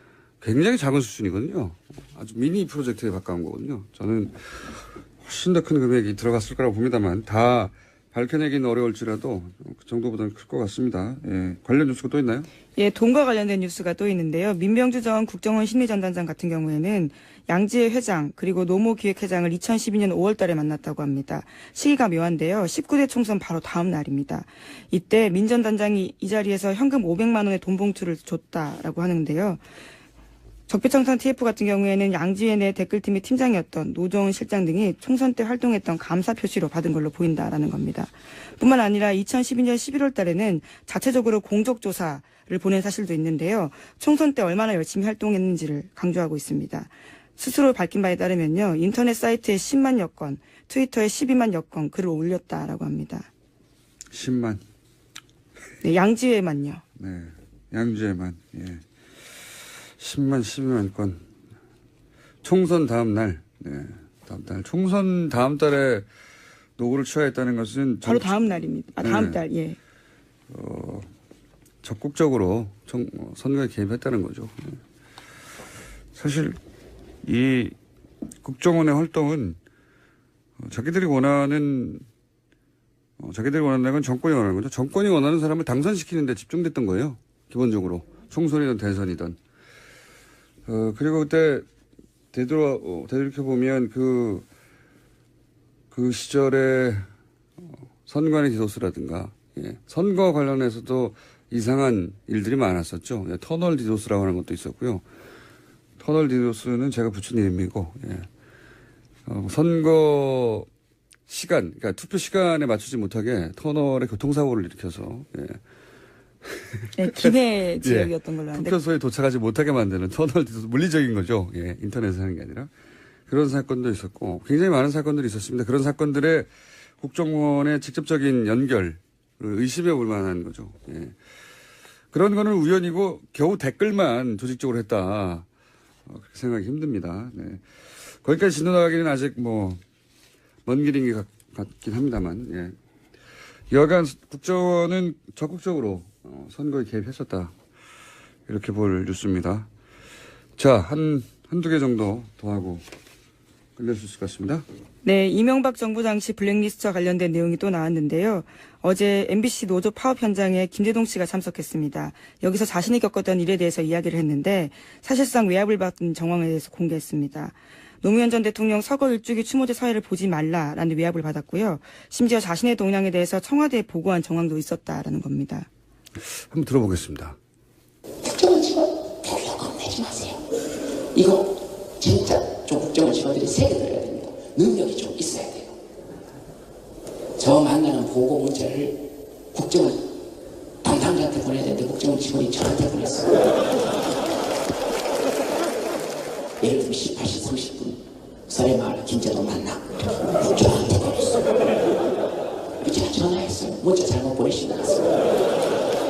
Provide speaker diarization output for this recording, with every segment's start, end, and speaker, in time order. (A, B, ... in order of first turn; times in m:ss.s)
0:00.4-0:12.5 A
0:12.8-0:29.6 B
0:30.7-0:53.3 B
0:54.1-0:54.6 A
0:55.8-0:56.8 B
0:57.0-0:58.8 A
1:00.0-1:01.2 A
1:02.4-1:06.0 A
1:06.8-1:08.3 A
1:08.0-1:09.8 B
1:09.0-1:09.4 A
1:10.5-1:11.1 A
1:11.8-1:14.8 A
1:16.1-1:16.6 A
1:17.2-1:17.8 A
1:18.4-1:19.6 A
1:20.6-1:22.0 A
1:23.2-1:29.4 A
1:30.7-1:31.6 A
1:32.3-1:34.4 A
1:35.9-1:37.0 A
1:38.0-1:45.0 A
1:46.0-1:48.3 A
1:49.2-1:50.7 A
1:51.3-1:55.6 A
1:56.4-2:02.7 A
1:57.0-1:58.8 B
2:03.3-2:06.5 A
2:07.0-2:11.1 A
2:12.1-2:15.4 A
2:16.1-2:17.6 A
2:18.2-2:19.8 A
2:20.6-2:22.8 A
2:23.7-2:27.5 A
2:28.5-2:29.7 A
2:30.6-2:32.8 A
2:33.8-2:34.6 A
2:35.0-2:55.7 B
2:56.5-2:57.4 A
2:58.2-3:00.4 C
3:01.1-3:05.8 C
3:07.4-3:10.0 C
3:10.8-3:13.5 C
3:16.6-3:21.5 C
3:22.8-3:25.3 C